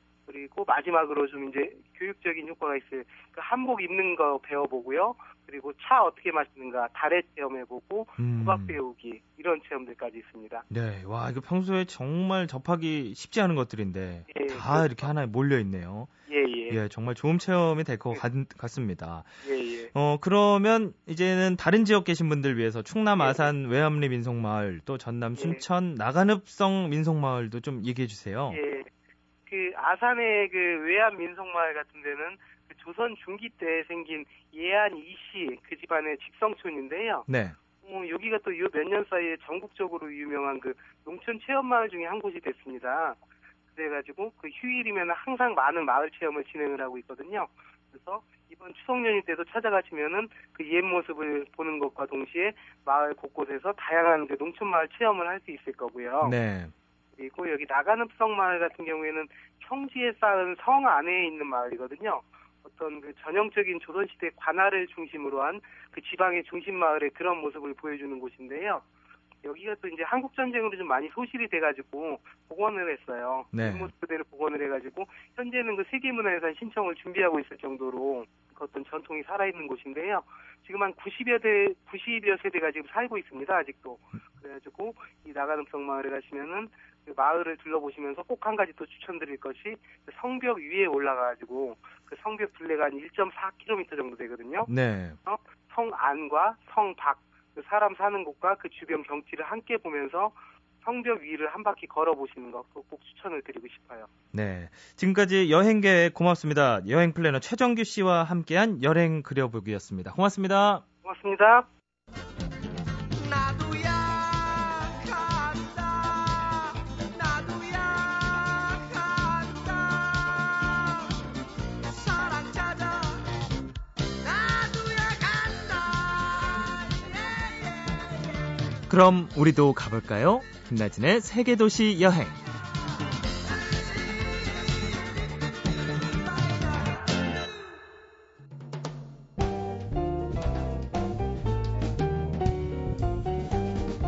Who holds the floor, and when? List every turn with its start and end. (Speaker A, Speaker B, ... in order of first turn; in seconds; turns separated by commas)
Speaker A: 0.3-10.6, Speaker B: 8.2-8.8, Speaker B: 10.7-16.1, Speaker A: 14.3-15.1, Speaker A: 16.3-16.8, Speaker B: 16.7-19.3, Speaker A: 19.4-19.9, Speaker B: 19.9-28.6, Speaker A: 23.2-23.5, Speaker A: 25.4-25.6, Speaker A: 28.5-28.9, Speaker A: 29.5-37.2, Speaker B: 37.3-37.6, Speaker A: 37.8-43.2, Speaker A: 43.7-56.4, Speaker B: 56.2-56.7, Speaker A: 57.1-68.8, Speaker A: 69.4-94.7, Speaker B: 73.5-73.9, Speaker B: 94.7-95.2, Speaker A: 95.2-104.1, Speaker B: 104.3-110.8, Speaker A: 111.0-111.7, Speaker B: 128.9-132.4